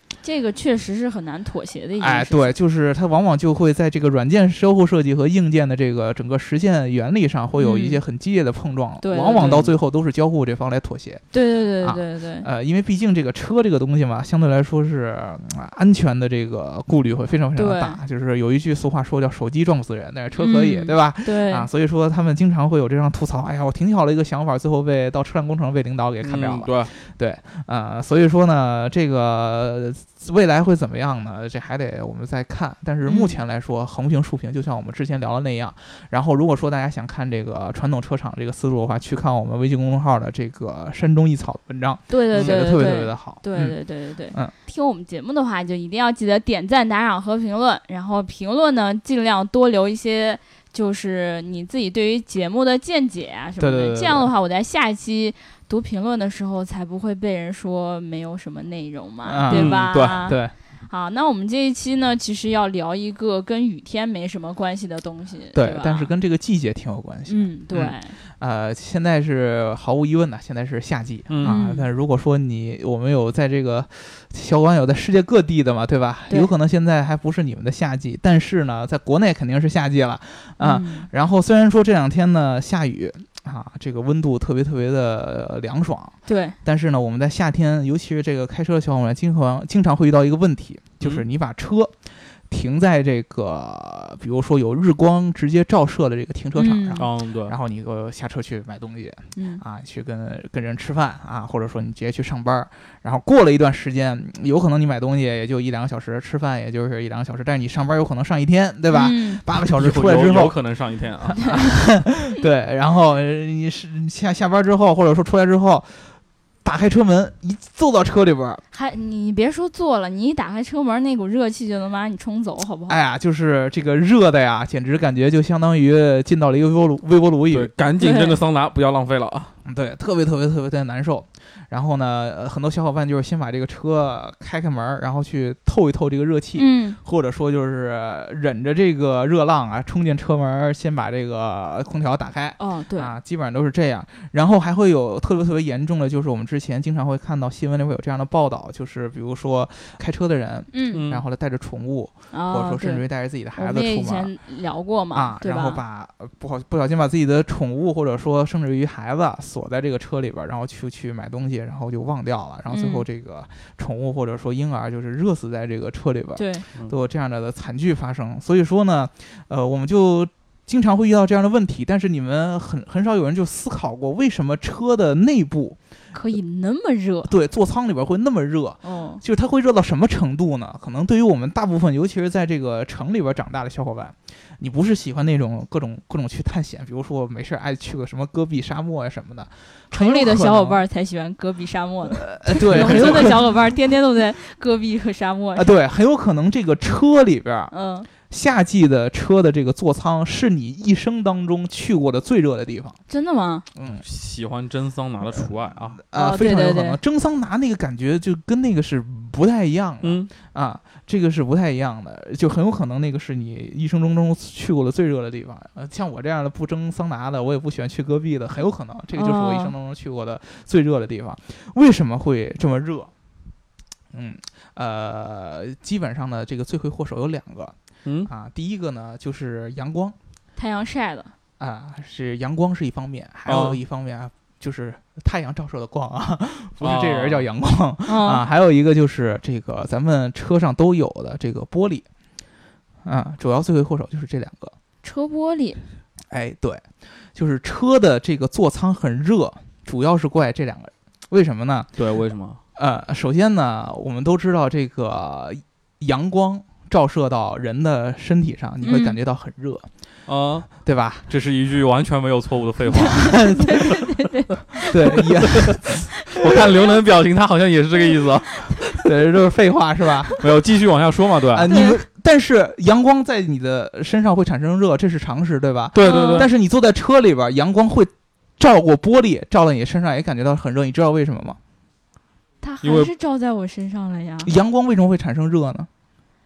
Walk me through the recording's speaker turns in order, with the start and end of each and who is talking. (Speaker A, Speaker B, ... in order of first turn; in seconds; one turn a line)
Speaker A: 0.2-2.5
Speaker B: 2.0-11.2
Speaker A: 7.6-8.0
Speaker A: 9.0-9.6
Speaker C: 9.3-9.7
Speaker A: 11.3-12.5
Speaker B: 11.8-43.8
Speaker A: 17.6-18.0
Speaker A: 20.4-21.7
Speaker C: 26.2-26.9
Speaker A: 33.1-33.4
Speaker A: 42.1-60.4
Speaker C: 42.4-42.6
Speaker B: 53.6-54.3
Speaker B: 59.2-60.5
Speaker C: 59.5-60.2
Speaker A: 60.9-66.1
Speaker B: 65.5-91.9
Speaker A: 67.3-68.1
Speaker C: 71.3-71.6
Speaker A: 71.4-71.9
Speaker A: 80.6-81.1
Speaker A: 86.3-86.6
Speaker B: 92.5-110.6
Speaker A: 96.6-97.1
Speaker C: 97.0-97.5
Speaker A: 99.4-99.6
Speaker A: 108.9-109.4
Speaker C: 109.7-111.4
Speaker A: 111.4-111.7
Speaker B: 111.4-116.1
Speaker B: 116.6-118.6
Speaker A: 118.7-123.0
Speaker B: 122.9-127.7
Speaker C: 127.5-129.5
Speaker A: 128.0-128.4
Speaker B: 129.7-154.3
Speaker A: 136.6-137.0
Speaker A: 142.6-143.1
Speaker A: 150.7-151.1
Speaker C: 150.9-151.2
Speaker A: 152.3-153.0
Speaker A: 153.6-155.8
Speaker B: 155.1-175.8
Speaker A: 162.7-163.1
Speaker A: 166.4-166.7
Speaker A: 176.1-177.3
Speaker B: 177.2-190.8
Speaker A: 178.8-179.2
Speaker A: 189.9-195.8
Speaker B: 192.1-193.5
Speaker B: 195.6-203.0
Speaker A: 197.7-198.1
Speaker A: 203.1-203.7
Speaker B: 203.8-204.1
Speaker C: 204.0-206.0
Speaker B: 205.4-223.1
Speaker A: 206.1-207.0
Speaker C: 210.0-210.3
Speaker A: 219.1-219.7
Speaker B: 224.1-227.8
Speaker B: 228.2-230.2
Speaker A: 230.6-231.3
Speaker B: 231.6-242.1
Speaker C: 233.5-233.8
Speaker C: 236.8-237.5
Speaker A: 238.1-238.4
Speaker B: 243.1-244.8
Speaker A: 245.0-245.8
Speaker B: 246.3-251.9
Speaker C: 252.0-252.6
Speaker B: 252.8-259.9
Speaker A: 258.8-259.2
Speaker C: 260.3-260.7
Speaker B: 260.8-261.2
Speaker C: 261.3-263.6
Speaker B: 263.2-263.9
Speaker A: 263.2-265.2
Speaker B: 264.9-266.0
Speaker C: 265.4-265.8
Speaker C: 266.3-268.9
Speaker B: 269.0-270.4
Speaker C: 270.4-271.8
Speaker B: 271.5-281.6
Speaker A: 271.7-272.0
Speaker C: 275.9-276.5
Speaker A: 276.0-276.5
Speaker A: 282.6-284.5
Speaker C: 282.8-283.1
Speaker B: 284.4-285.9